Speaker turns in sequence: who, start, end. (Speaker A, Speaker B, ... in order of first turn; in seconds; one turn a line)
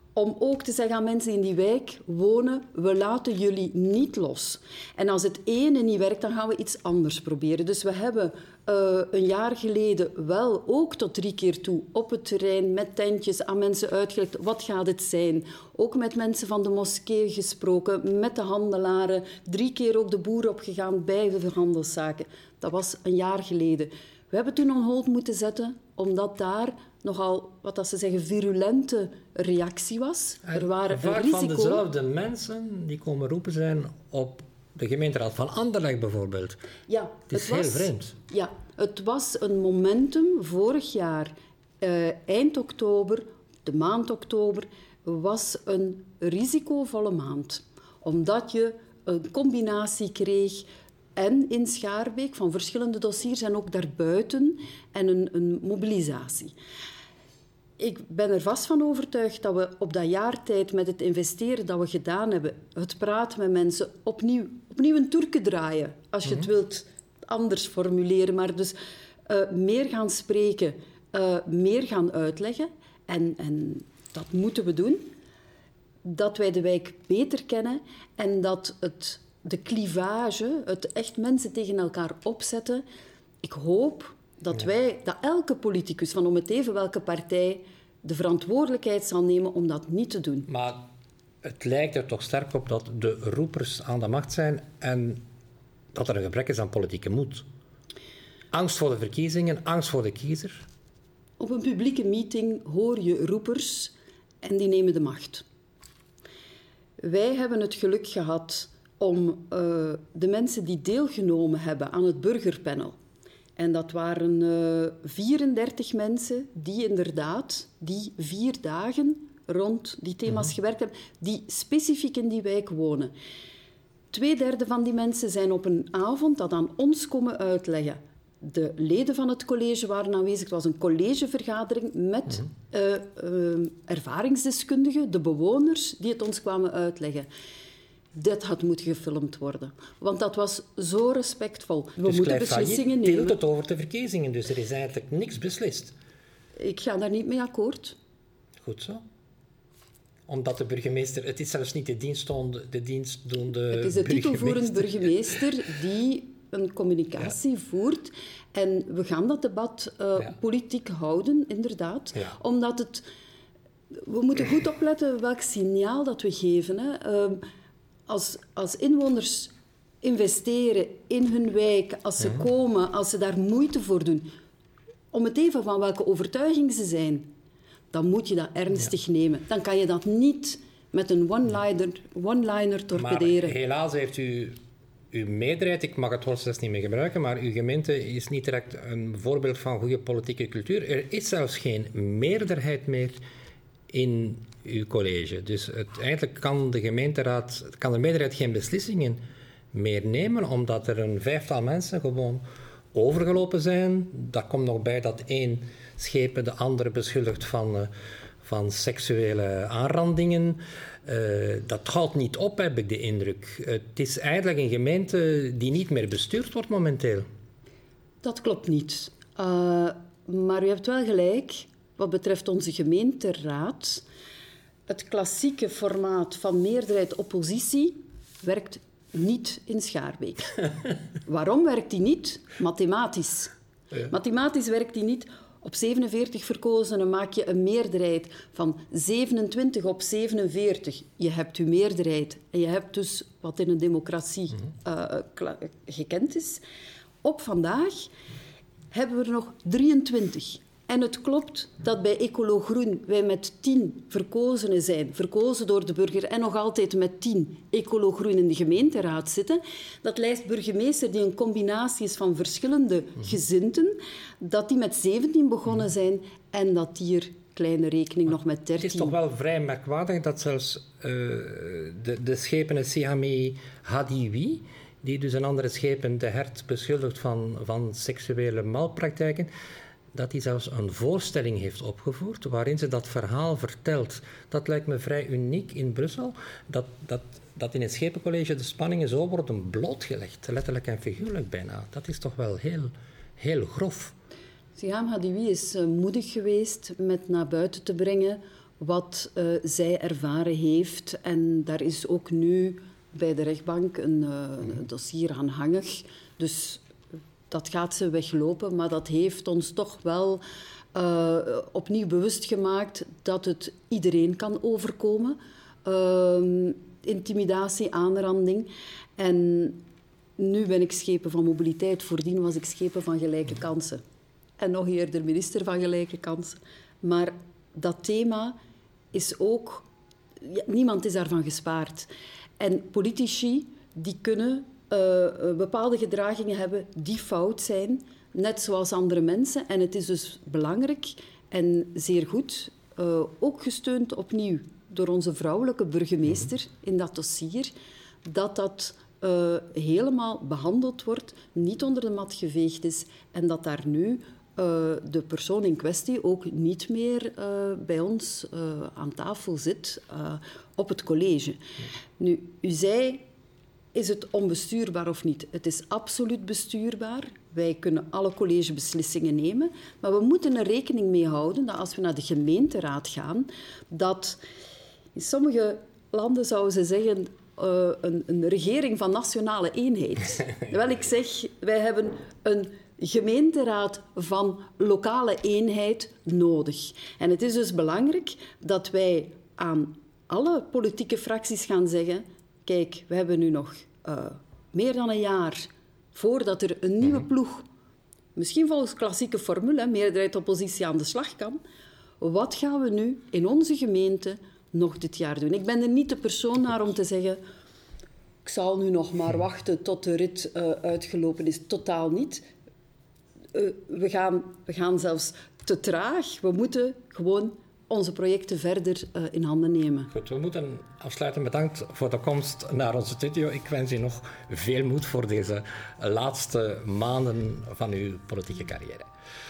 Speaker A: 0.1-31.8
Speaker B: 30.5-36.6
Speaker A: 36.9-56.5
Speaker B: 37.3-38.1
Speaker A: 57.8-68.7
Speaker A: 69.3-75.1
Speaker A: 76.0-82.8
Speaker A: 83.4-90.5
Speaker B: 90.5-90.8
Speaker B: 91.4-95.2
Speaker B: 95.9-97.4
Speaker B: 98.5-100.7
Speaker A: 101.4-105.4
Speaker A: 107.0-113.0
Speaker A: 113.6-123.1
Speaker A: 124.1-137.3
Speaker A: 138.1-143.4
Speaker B: 142.0-145.9
Speaker A: 146.6-147.9
Speaker B: 148.6-149.0
Speaker B: 150.3-155.1
Speaker A: 153.7-163.0
Speaker A: 163.9-167.4
Speaker A: 168.1-174.3
Speaker A: 175.1-177.3
Speaker A: 177.9-183.6
Speaker B: 182.9-184.6
Speaker B: 185.1-193.2
Speaker B: 193.9-199.2
Speaker B: 199.7-202.4
Speaker B: 202.9-207.9
Speaker B: 208.4-217.2
Speaker A: 218.2-224.0
Speaker A: 224.9-230.6
Speaker A: 231.2-246.6
Speaker A: 247.2-248.1
Speaker A: 248.9-269.2
Speaker B: 268.8-279.5
Speaker B: 280.1-294.1
Speaker A: 294.8-306.8
Speaker A: 307.5-310.4
Speaker A: 310.9-319.8
Speaker A: 320.4-324.0
Speaker A: 324.6-328.6
Speaker A: 329.1-329.9
Speaker A: 330.4-347.7
Speaker A: 348.2-361.6
Speaker A: 362.2-363.2
Speaker A: 363.9-374.4
Speaker A: 375.1-397.6
Speaker A: 398.4-401.6
Speaker A: 402.2-407.4
Speaker A: 408.4-412.4
Speaker A: 413.5-420.1
Speaker B: 420.1-429.1